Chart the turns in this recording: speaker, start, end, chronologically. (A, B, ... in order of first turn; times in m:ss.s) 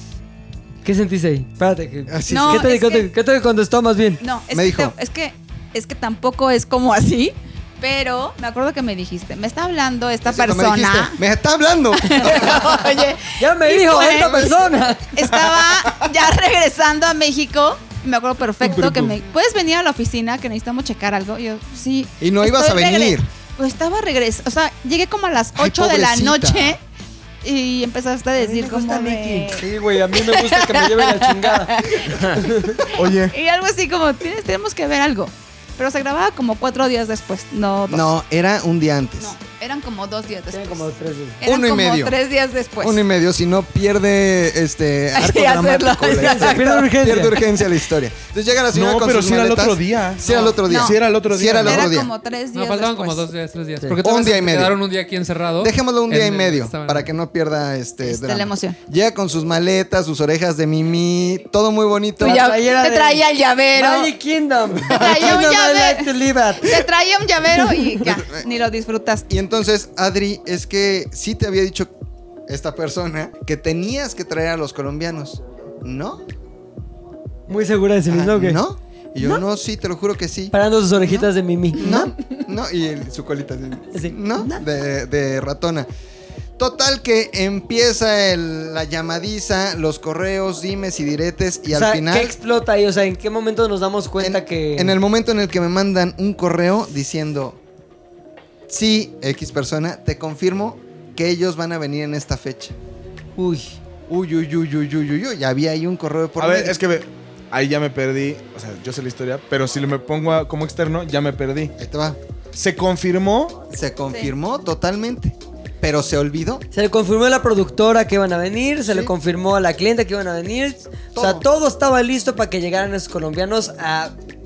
0:00.8-0:04.2 A
0:02.1-0:02.7 B
0:02.3-0:03.1 C
0:04.2-0:11.2 C
0:04.5-0:04.9 B
0:10.2-0:12.7 B
0:12.0-0:14.6 C
0:13.4-0:15.1 A
0:14.1-0:14.6 B
0:15.1-0:26.8 C
0:18.7-0:18.9 B
0:22.2-0:23.3 B
0:25.6-0:26.8 B
0:27.4-0:32.2 C
0:28.4-0:32.8 A
0:33.0-0:33.3 D
0:33.3-0:38.1 C
0:37.9-0:39.4 B
0:39.2-0:43.0 C
0:40.5-0:41.4 A
0:41.4-0:42.1 B
0:42.8-0:52.1 B
0:45.1-0:46.9 C
0:46.2-0:47.3 A
0:48.7-0:51.9 D
0:50.3-0:51.0 C
0:51.6-0:53.2 C
0:52.5-0:57.0 E
0:54.0-0:54.8 B
0:55.6-1:02.5 B
0:58.0-0:58.8 C
1:02.2-1:03.2 A
1:02.2-1:04.1 C
1:03.7-1:06.8 A
1:04.9-1:09.3 C
1:04.9-1:05.4 B
1:08.1-1:08.4 B
1:09.3-1:11.9 B
1:12.5-1:16.2 B
1:17.5-1:18.6 A
1:18.1-1:25.9 B
1:20.5-1:22.1 A
1:23.9-1:24.6 A
1:26.6-1:32.4 B
1:31.7-1:34.9 A
1:34.2-1:37.6 B
1:38.7-1:42.8 B
1:43.4-1:43.8 A
1:44.1-1:46.8 B
1:46.4-1:51.7 D
1:51.8-1:52.2 B
1:52.5-1:53.6 D
1:53.7-1:56.6 B
1:56.7-2:04.1 A
1:58.8-1:59.1 B
2:01.1-2:01.4 B